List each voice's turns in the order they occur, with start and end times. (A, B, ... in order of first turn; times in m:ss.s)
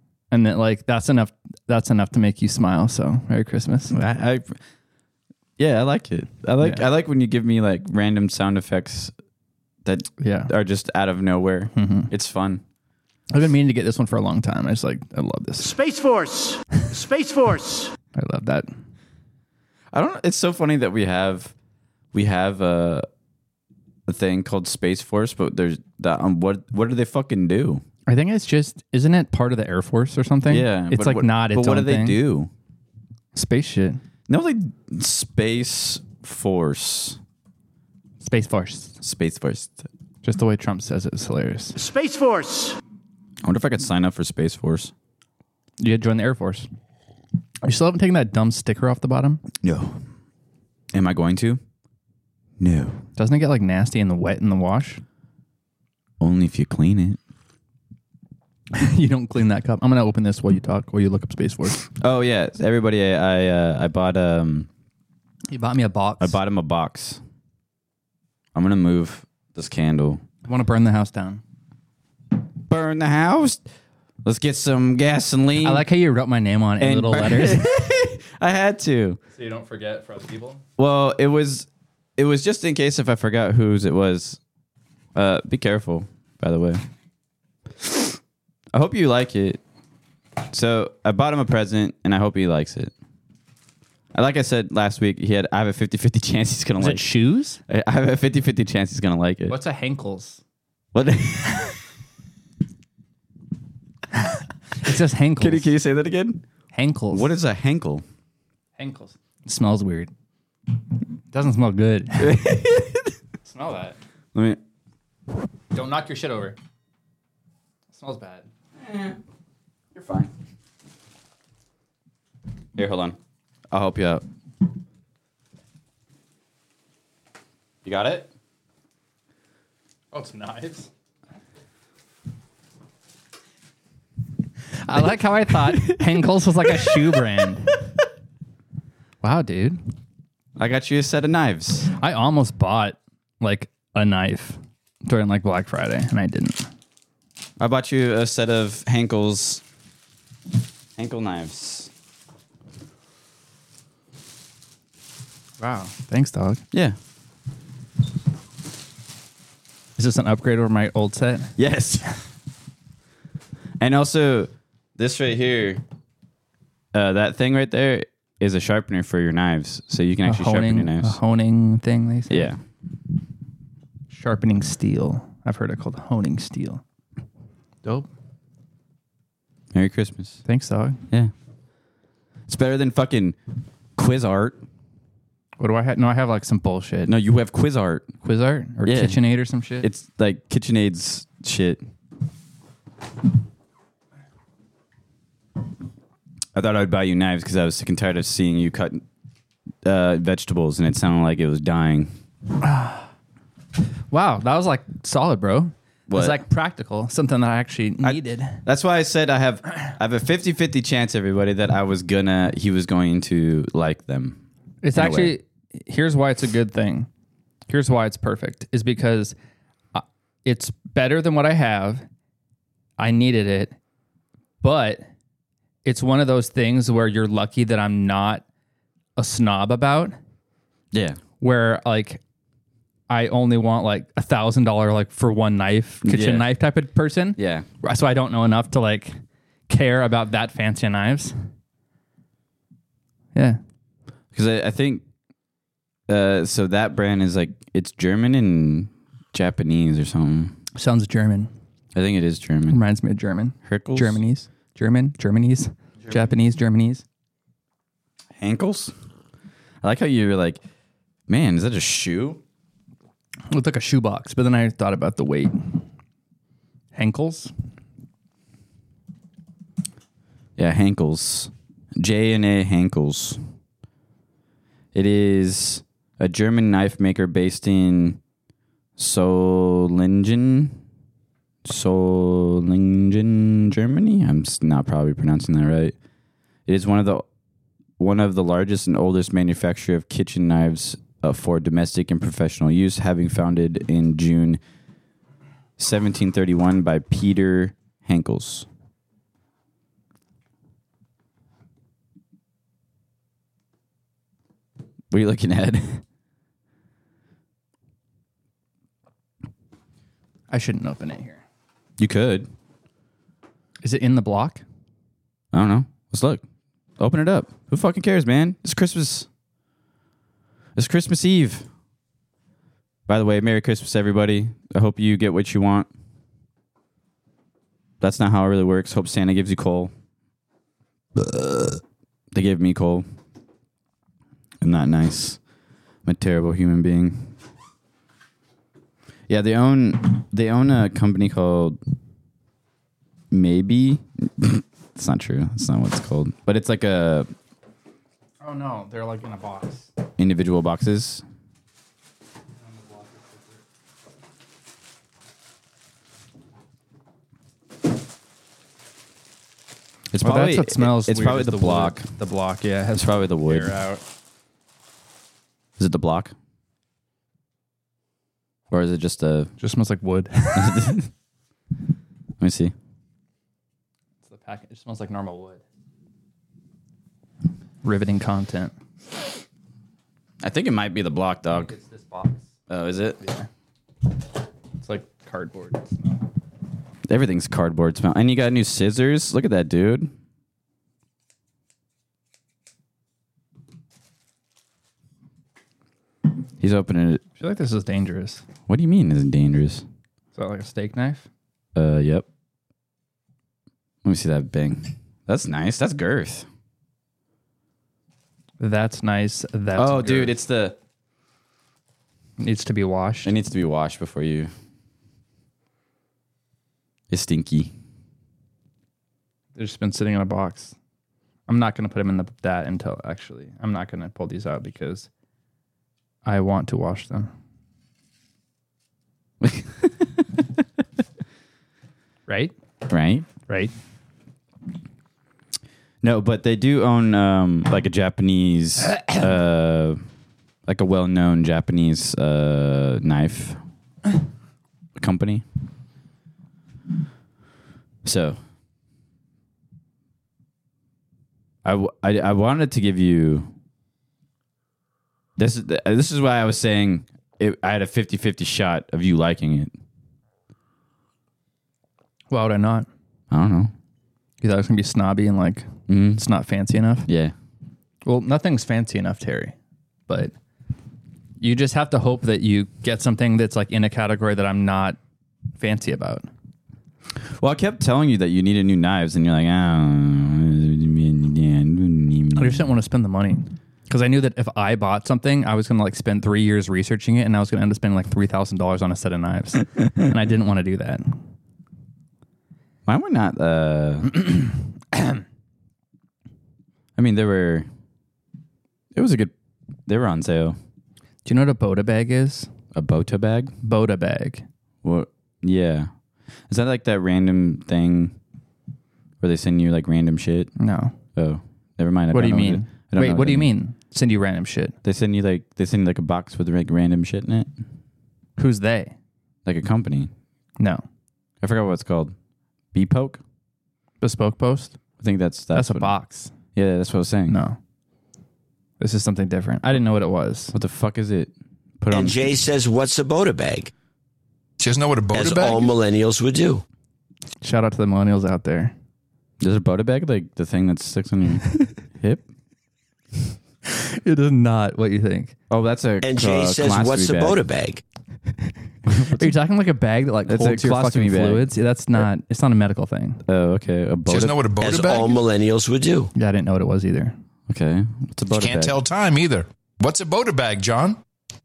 0:00.3-0:04.0 A
0:03.9-0:04.6 B
0:05.6-0:09.1 B
0:06.6-0:06.9 A
0:09.8-0:12.6 B
0:10.2-0:10.5 A
0:11.7-0:12.1 A
0:13.3-0:15.7 A
0:15.6-0:17.9 C
0:18.1-0:18.7 A
0:19.9-0:21.5 B
0:22.1-0:23.1 B
0:24.1-0:27.8 B
0:28.1-0:32.2 A
0:30.5-0:32.5 B
0:33.3-0:34.0 A
0:34.3-0:37.2 B
0:38.2-0:39.0 A
0:39.0-0:39.9 B
0:40.2-0:41.8 A
0:41.8-0:42.8 C
0:43.4-0:44.9 B
0:45.8-0:46.7 A
0:47.6-0:49.4 A
0:49.6-0:50.0 B
0:50.9-0:51.6 B
0:52.6-0:53.0 B
0:53.2-0:55.0 A
0:56.2-0:57.2 B
0:58.7-1:01.8 A
1:02.0-1:04.7 B
1:05.5-1:06.4 A
1:06.2-1:07.2 B
1:08.5-1:10.2 B
1:10.4-1:11.4 A
1:12.7-1:13.6 B
1:14.2-1:15.8 B
1:15.6-1:17.6 A
1:16.8-1:19.2 B
1:19.3-1:20.6 A
1:20.8-1:24.4 B
1:25.1-1:26.8 B
1:28.7-1:29.6 B
1:30.5-1:32.9 B
1:34.1-1:37.1 B
1:36.8-1:37.6 A
1:37.7-1:39.6 B
1:39.5-1:40.4 A
1:40.9-1:41.7 B
1:44.8-1:45.7 A
1:45.4-1:46.4 B
1:46.7-1:47.3 A
1:47.1-1:48.0 B
1:48.8-1:50.1 A
1:51.3-1:52.4 A
1:52.2-1:53.1 B
1:53.4-1:54.0 A
1:54.3-1:54.6 B
1:55.7-1:56.6 A
1:57.9-1:58.5 A
1:58.8-1:59.2 B
2:00.0-2:00.3 B
2:02.8-2:03.2 B
2:03.7-2:04.2 B
2:07.8-2:08.3 B
2:10.1-2:10.9 A
2:14.8-2:17.8 A
2:19.2-2:19.8 A
2:20.6-2:21.9 B
2:22.0-2:26.7 A
2:27.6-2:29.6 B
2:31.0-2:31.9 B
2:35.6-2:36.6 A
2:40.0-2:41.5 A
2:41.6-2:42.1 B
2:43.8-2:45.8 B
2:46.9-2:51.2 B
2:50.2-2:52.5 A
2:52.3-2:52.6 B
2:54.1-2:56.8 A
2:57.8-2:58.1 A
2:59.7-3:00.4 B
3:00.5-3:01.0 A
3:02.5-3:03.4 B
3:04.0-3:04.6 B
3:05.6-3:07.1 A
3:07.1-3:08.1 B
3:08.2-3:09.9 A
3:08.8-3:09.2 B
3:09.8-3:11.8 B
3:16.5-3:19.0 B
3:19.8-3:22.1 B
3:22.6-3:23.1 A
3:24.1-3:28.6 A
3:26.1-3:26.4 B
3:28.0-3:34.4 B
3:34.8-3:37.1 A
3:35.0-3:35.3 B
3:37.7-3:39.4 A
3:39.9-3:42.0 A
3:43.0-3:43.8 A
3:44.6-3:45.0 A
3:45.8-3:48.4 A
3:49.2-3:50.2 A
3:50.9-3:51.2 B
3:51.4-3:52.2 A
3:53.1-3:59.2 A
3:56.0-3:56.5 B
3:57.4-3:57.6 B
3:59.7-4:01.4 A
4:04.3-4:05.0 B
4:06.1-4:10.6 B
4:10.8-4:11.5 A
4:12.0-4:12.8 B
4:12.7-4:17.0 A
4:13.6-4:14.2 B
4:18.4-4:18.9 B
4:19.8-4:20.6 B
4:21.3-4:22.4 B
4:23.5-4:25.6 A
4:26.9-4:27.5 A
4:30.6-4:33.4 B
4:34.9-4:38.2 B
4:39.0-4:40.8 B
4:41.6-4:46.0 B
4:46.7-4:47.2 B
4:48.0-4:54.6 B
4:55.8-4:58.7 B
5:05.1-5:06.0 B
5:10.5-5:11.4 A
5:12.0-5:12.5 B
5:13.8-5:14.6 A
5:15.5-5:16.4 B
5:17.0-5:19.3 B
5:20.8-5:21.6 B
5:23.1-5:25.9 B
5:28.0-5:29.9 B
5:31.2-5:31.8 B
5:32.3-5:33.0 B
5:34.6-5:35.4 B
5:36.0-5:37.4 B
5:39.3-5:41.8 B
5:43.3-5:47.3 B
5:48.4-5:49.9 A
5:50.2-5:51.2 B
5:52.6-5:53.6 A
6:00.1-6:02.1 B
6:00.2-6:04.0 A
6:02.9-6:03.7 B
6:05.8-6:06.3 B
6:08.7-6:09.5 B
6:09.6-6:10.8 A
6:10.5-6:11.1 B
6:12.4-6:12.7 B
6:14.2-6:15.6 A
6:17.8-6:18.7 A
6:20.4-6:21.7 B
6:21.5-6:22.5 A
6:22.7-6:23.2 B
6:23.2-6:23.5 A
6:24.8-6:26.2 A
6:27.1-6:30.1 B
6:36.6-6:37.2 B
6:37.4-6:38.4 A
6:38.7-6:39.8 B
6:40.4-6:41.3 A
6:41.8-6:42.2 B
6:44.0-6:46.5 B
6:48.6-6:50.3 A
6:49.8-6:50.8 B
6:52.4-6:53.3 A
6:53.2-6:54.5 B
6:57.1-6:57.7 B
6:59.6-7:00.8 A
7:01.5-7:05.1 A
7:06.2-7:07.3 A
7:09.4-7:10.0 B
7:12.3-7:12.5 A
7:12.9-7:13.3 B
7:13.5-7:13.7 A
7:16.0-7:20.0 B
7:20.7-7:23.6 B
7:25.0-7:25.4 B
7:28.0-7:28.4 B
7:31.6-7:33.5 B
7:35.4-7:39.7 B
7:42.3-7:42.9 A
7:43.3-7:43.7 B
7:44.4-7:47.1 A
7:45.9-7:46.2 B
7:47.1-7:47.4 B
7:48.0-7:49.5 A
7:50.1-7:50.3 A
7:51.4-7:55.0 A
7:55.6-7:56.3 A
7:57.4-8:02.6 B
8:02.4-8:11.2 A
8:12.9-8:14.2 B
8:17.0-8:17.7 B
8:18.9-8:19.3 B
8:19.9-8:20.6 B
8:21.2-8:22.5 A
8:22.7-8:23.5 B
8:23.6-8:24.4 A
8:24.8-8:25.9 B
8:26.5-8:28.2 B
8:29.2-8:30.5 B
8:30.6-8:31.0 A
8:31.1-8:33.5 B
8:32.1-8:34.8 A
8:34.8-8:37.5 B
8:38.4-8:39.0 A
8:39.5-8:40.1 B
8:41.4-8:42.1 B
8:42.7-8:43.2 B
8:44.0-8:44.8 A
8:45.0-8:45.9 B
8:45.5-8:46.3 A
8:46.5-8:47.4 B
8:47.3-8:47.6 A
8:48.8-8:50.5 A
8:50.5-8:52.3 B
8:51.9-8:53.7 D
8:54.6-8:55.7 E
8:55.1-8:56.6 D
8:57.4-8:58.7 A
8:59.4-9:01.5 B
9:03.7-9:05.3 A
9:05.5-9:07.4 B
9:06.0-9:07.8 D
9:08.9-9:09.3 B
9:09.2-9:13.2 A
9:10.3-9:11.5 B
9:13.3-9:14.4 B
9:14.1-9:15.2 E
9:14.6-9:16.1 D
9:16.1-9:17.1 A
9:17.5-9:18.8 B
9:18.4-9:21.0 E